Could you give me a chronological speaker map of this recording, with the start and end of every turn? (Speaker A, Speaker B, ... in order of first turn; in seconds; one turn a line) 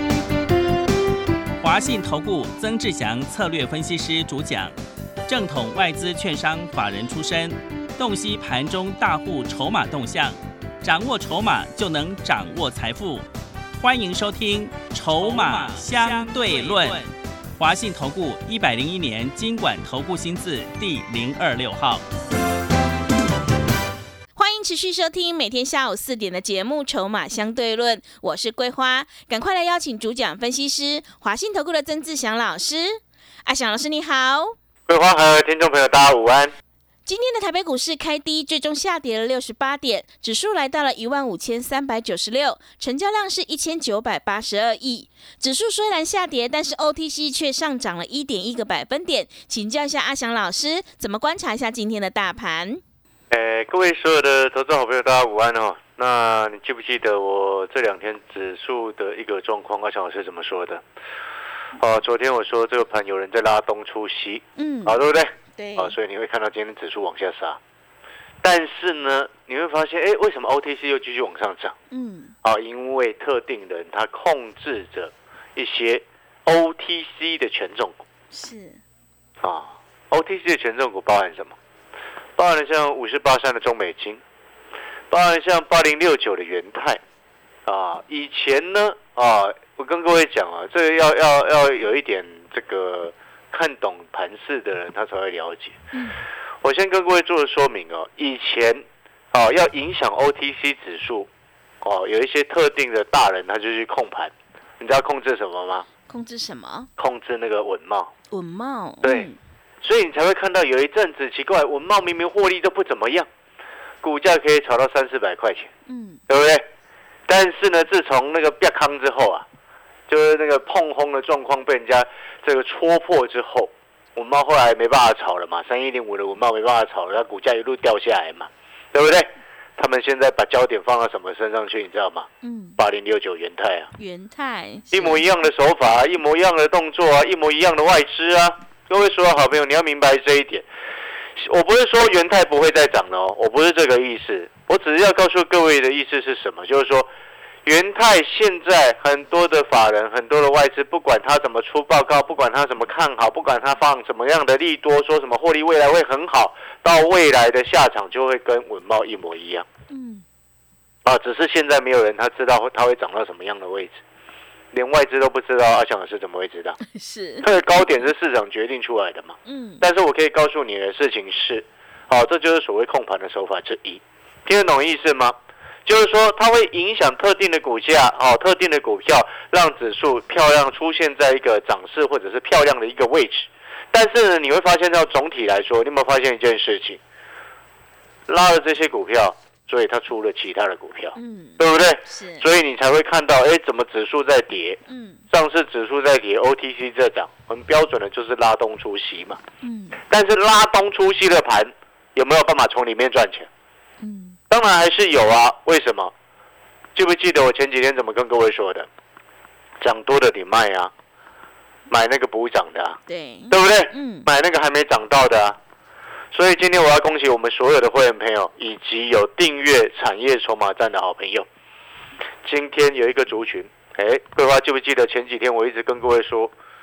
Speaker A: 1.6-4.7
Speaker A: 5.3-13.2
Speaker A: 13.8-22.0
Speaker B: 24.4-34.5
Speaker C: 34.9-36.5
Speaker B: 37.0-52.8
Speaker C: 53.3-60.8
Speaker C: 61.8-67.6
Speaker B: 64.5-65.0
Speaker B: 65.5-66.0
Speaker C: 68.4-71.7
Speaker B: 71.9-72.3
Speaker C: 72.4-78.0
Speaker B: 78.3-78.8
Speaker C: 79.4-81.5
Speaker C: 82.4-84.2
Speaker C: 85.1-87.0
Speaker C: 87.7-95.8
Speaker C: 96.6-101.3
Speaker C: 101.8-105.8
Speaker B: 106.1-106.9
Speaker C: 107.0-108.1
Speaker B: 108.3-109.4
Speaker C: 109.0-109.3
Speaker C: 109.8-113.3
Speaker C: 114.0-115.7
Speaker B: 115.9-116.2
Speaker C: 116.3-116.7
Speaker C: 117.3-119.5
Speaker C: 120.1-133.9
Speaker B: 132.4-132.8
Speaker B: 134.0-135.3
Speaker C: 134.9-140.6
Speaker C: 141.4-147.1
Speaker C: 147.6-159.7
Speaker B: 159.9-160.2
Speaker C: 161.0-164.0
Speaker C: 164.7-166.8
Speaker B: 166.9-167.5
Speaker C: 167.4-187.0
Speaker B: 169.4-169.8
Speaker C: 188.3-194.8
Speaker B: 191.1-192.4
Speaker B: 194.9-195.2
Speaker C: 195.3-199.4
Speaker B: 199.6-200.0
Speaker C: 200.1-203.5
Speaker B: 204.0-204.4
Speaker C: 204.5-206.1
Speaker C: 206.9-208.9
Speaker C: 209.8-210.9
Speaker C: 211.9-213.0
Speaker B: 213.1-214.3
Speaker C: 213.5-215.6
Speaker C: 216.3-221.5
Speaker C: 222.4-226.5